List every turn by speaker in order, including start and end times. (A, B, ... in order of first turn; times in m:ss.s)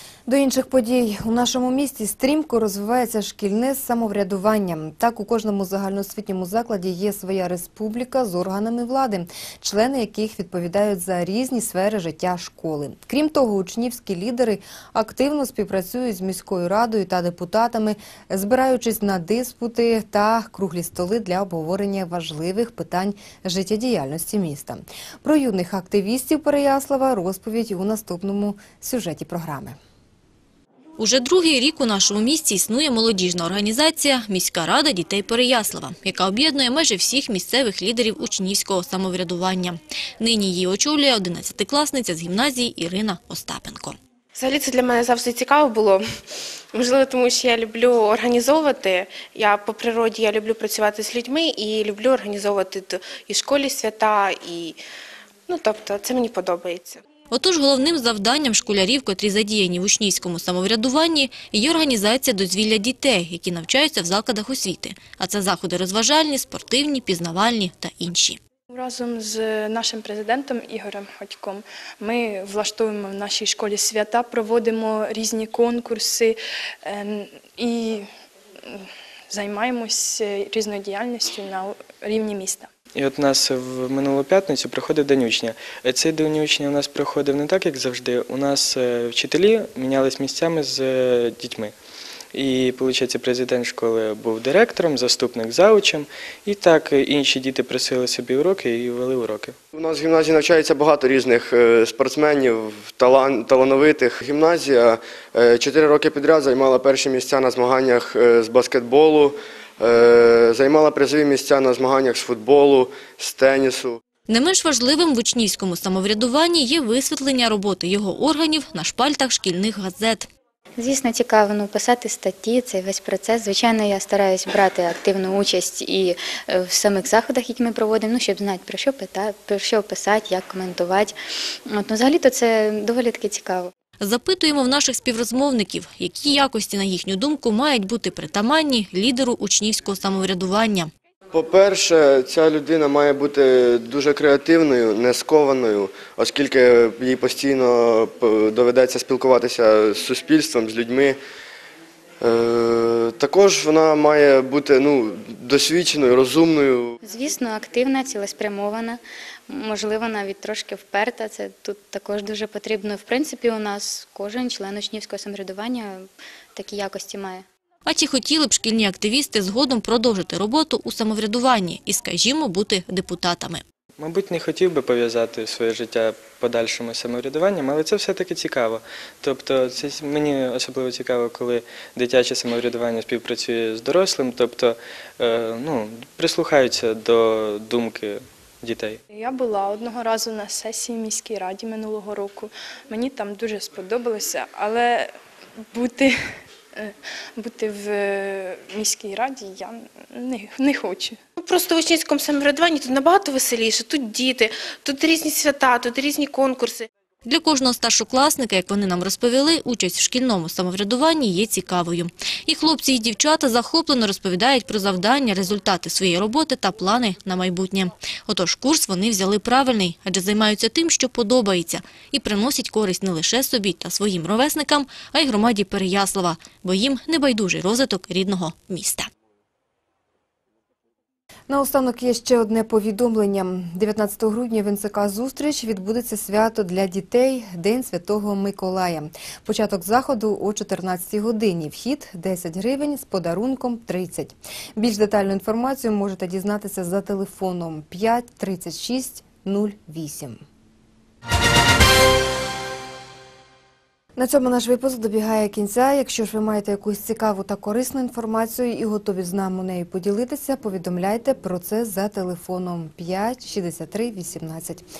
0:00.3-0:29.8 A
0:31.0-0:44.0 B
0:44.3-0:46.0 C
0:46.7-0:54.8 C
0:55.5-0:57.0 C
0:57.3-1:08.4 B
1:08.7-1:18.1 D
1:18.7-1:22.7 D
1:22.9-1:31.7 E
1:32.3-1:39.6 E
1:39.7-1:54.0 F
1:54.3-2:00.3 B
2:00.8-2:13.7 G
2:14.0-2:20.9 B
2:21.3-2:31.2 F
2:32.2-2:36.9 F
2:37.0-2:47.4 G
2:47.8-2:53.6 B
2:54.0-3:09.0 E
3:09.1-3:15.1 D
3:15.7-3:21.2 D
3:21.4-3:26.9 C
3:27.2-3:49.1 B
3:51.5-4:10.4 A
4:14.2-4:24.9 A